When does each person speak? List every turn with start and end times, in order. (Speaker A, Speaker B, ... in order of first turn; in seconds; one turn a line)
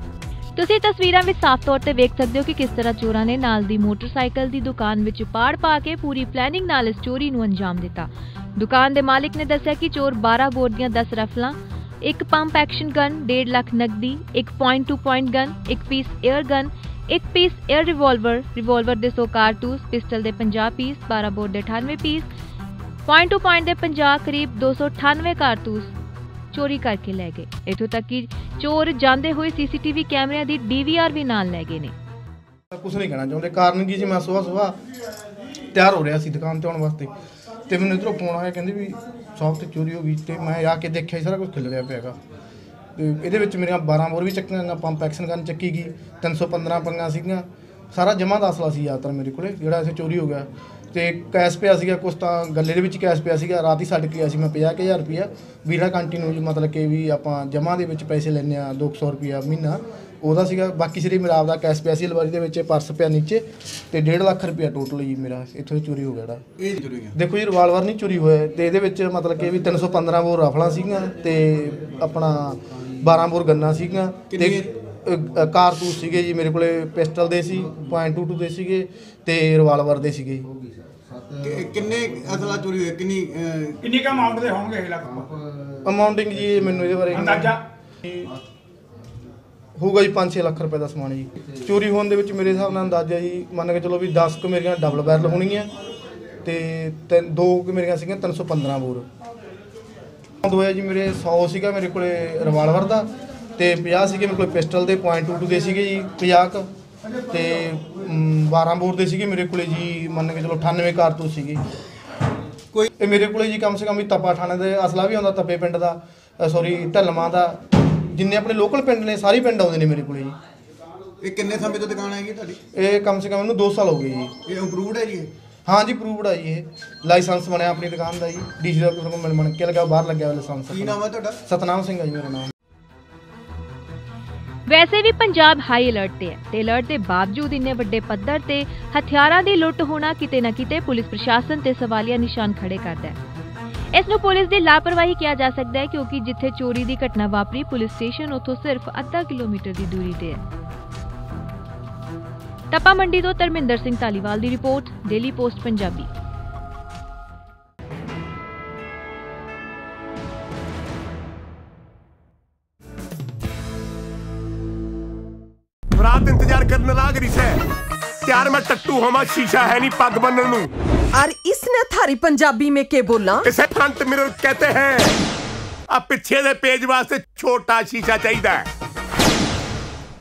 Speaker A: 0.6-22.3
Speaker A: 23.1-25.9
Speaker A: 26.5-31.9
Speaker B: 32.7-34.8
Speaker B: 35.7-37.1
Speaker B: 37.7-42.1
Speaker B: 43.0-66.4
Speaker C: 66.6-67.1
Speaker B: 67.1-80.5
Speaker C: 74.3-74.6
Speaker C: 81.4-83.8
Speaker D: 83.8-85.3
Speaker B: 85.8-88.3
Speaker D: 87.1-87.6
Speaker B: 89.8-95.7
Speaker B: 96.4-99.1
Speaker B: 100.4-106.7
Speaker B: 107.3-111.6
Speaker B: 113.0-120.3
Speaker C: 121.2-122.6
Speaker B: 122.7-124.3
Speaker C: 124.5-125.3
Speaker B: 125.7-132.5
Speaker C: 130.7-131.4
Speaker A: 134.7-143.2
Speaker A: 143.9-150.4
Speaker A: 152.7-156.1
Speaker E: 165.9-167.6
Speaker E: 168.2-170.7
Speaker F: 171.1-173.5
Speaker E: 173.4-175.2
Speaker E: 175.9-178.7